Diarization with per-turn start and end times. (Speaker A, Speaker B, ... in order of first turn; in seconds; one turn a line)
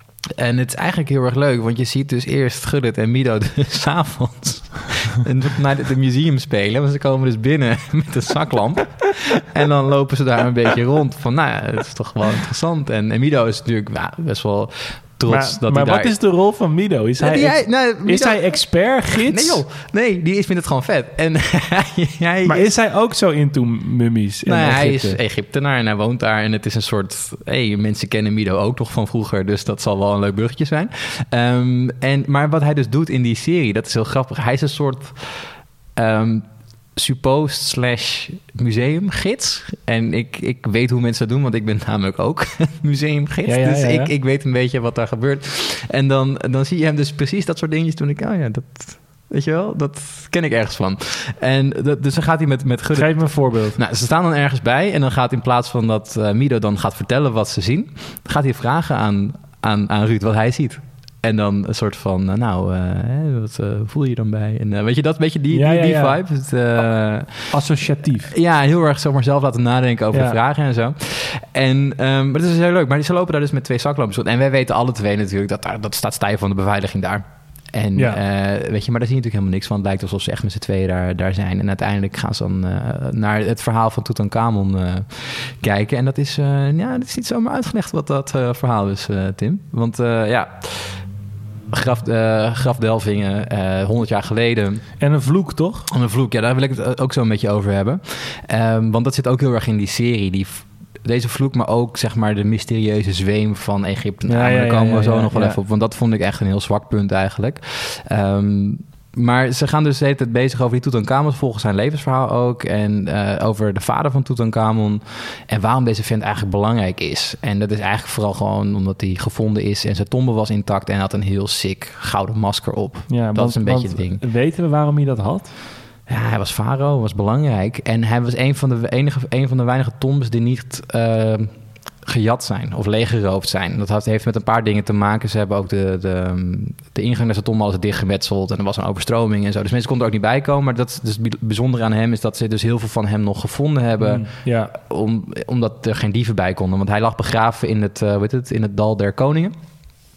Speaker A: 0.4-16.1
Speaker B: 15.2-19.6
Speaker A: 17.2-22.7
Speaker B: 22.4-25.2
Speaker A: 24.4-67.6
Speaker B: 43.4-44.1
Speaker B: 52.9-53.8
Speaker B: 65.5-66.2
Speaker B: 67.5-68.3
Speaker A: 68.3-91.2
Speaker B: 70.1-70.4
Speaker A: 91.7-95.0
Speaker B: 95.0-95.9
Speaker A: 95.9-124.2
Speaker B: 104.3-105.6
Speaker B: 123.1-125.5
Speaker A: 126.0-149.5
Speaker B: 144.0-144.7